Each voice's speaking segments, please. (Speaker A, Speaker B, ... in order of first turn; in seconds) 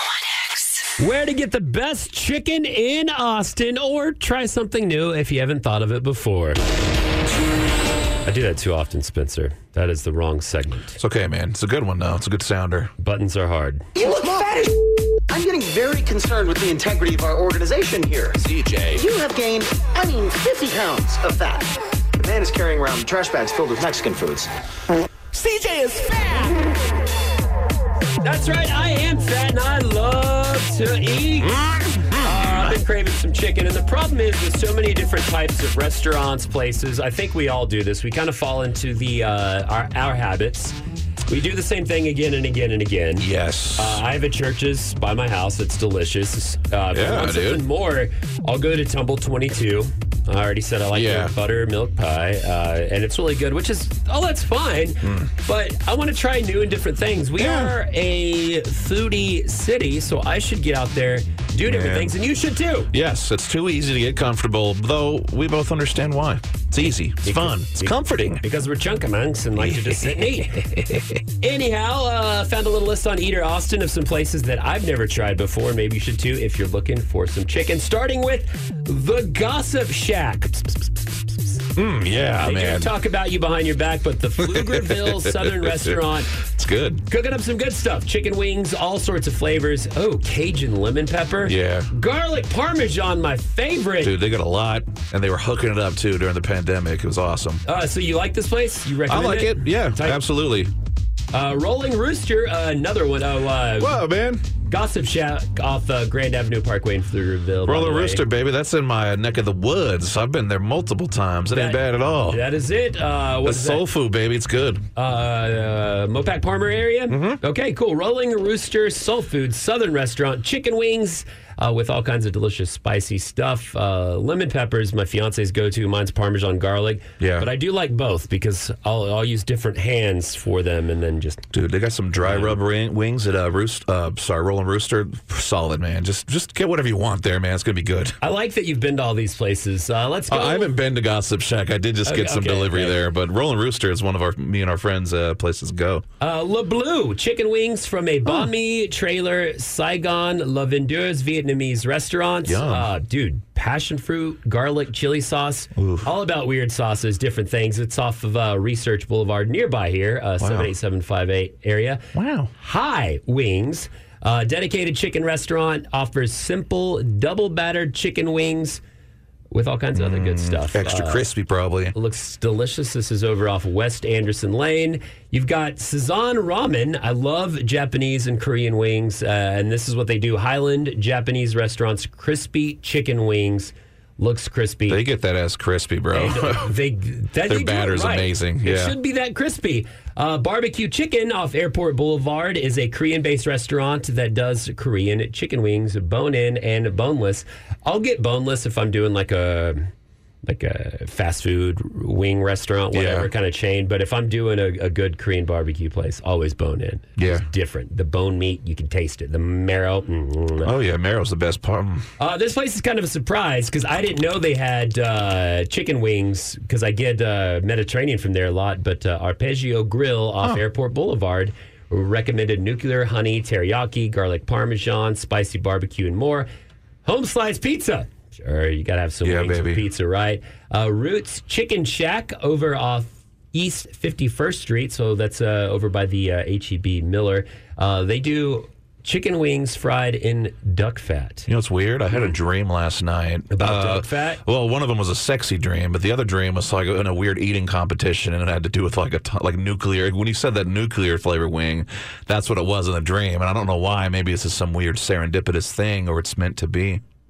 Speaker A: 1.0-6.6, 8.2-11.0, 13.0-13.9, 25.4-26.0, 28.2-31.6, 32.1-40.7, 41.3-62.9, 67.2-70.7, 71.4-81.3, 82.4-86.3, 87.1-94.1, 97.6-100.2, 101.3-104.0, 104.7-108.2, 111.5-113.8, 115.0-131.5, 132.2-132.6, 138.2-140.7, 142.0-143.1, 146.2-168.8, 169.5-171.2, 171.9-185.0, 186.1-199.9, 200.4-210.7, 212.2-226.5, 227.0-241.5, 243.5-244.4
Speaker B: 11.0-12.9, 18.4-19.0, 43.2-44.0, 46.9-47.6, 50.9-51.3, 55.0-55.3, 57.4-57.7, 61.6-62.2, 62.9-68.4, 69.5-71.2, 81.7-82.9, 84.4-87.0, 91.4-91.9, 94.0-97.6, 99.1-100.7, 103.8-104.4, 107.6-112.4, 113.4-114.8, 117.1-117.4, 127.2-127.5, 131.5-138.2, 140.3-146.0, 152.4-152.9, 155.8-156.1, 160.4-160.7, 162.1-162.5, 169.9-171.9, 184.9-186.8, 187.4-188.9, 202.9-203.3, 207.2-207.4, 210.6-212.1, 229.2-229.8, 241.5-257.0
Speaker C: 13.9-18.4, 18.9-24.5